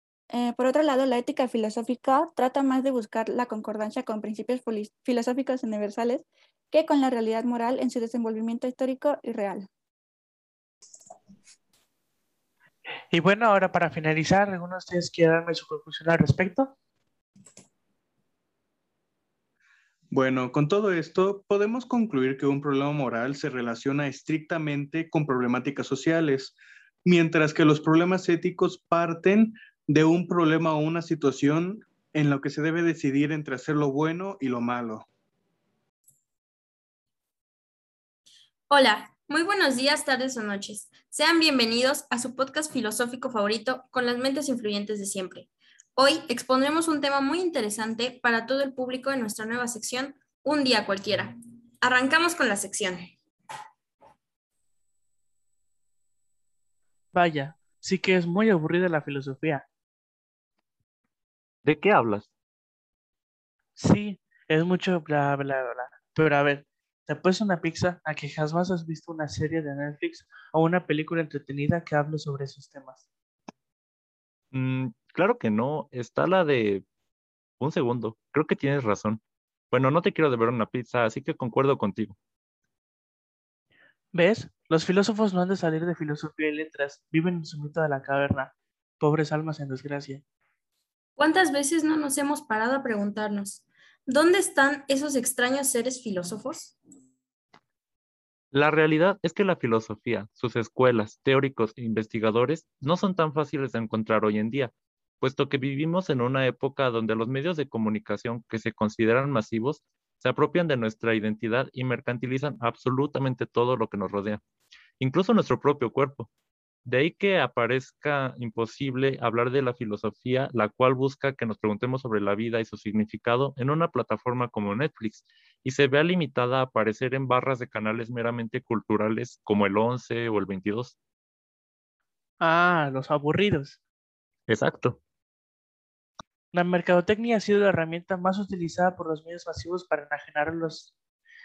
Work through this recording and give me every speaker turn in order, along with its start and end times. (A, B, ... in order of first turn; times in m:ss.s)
0:00.3-0:09.7 A
0:13.1-0:16.7 B
0:20.1-0:35.0 C
0:38.7-0:53.1 D
0:57.1-0:59.6 B
1:01.6-1:02.3 E
1:03.8-1:13.0 B
1:14.5-1:16.8 E
1:17.6-1:22.2 E
1:24.1-1:30.2 B
1:31.2-1:36.8 D
1:38.5-1:54.4 E
1:55.0-1:56.3 E
1:56.8-2:10.9 E
2:12.4-2:13.8 B
2:14.5-2:15.0 E
2:16.5-2:20.9 B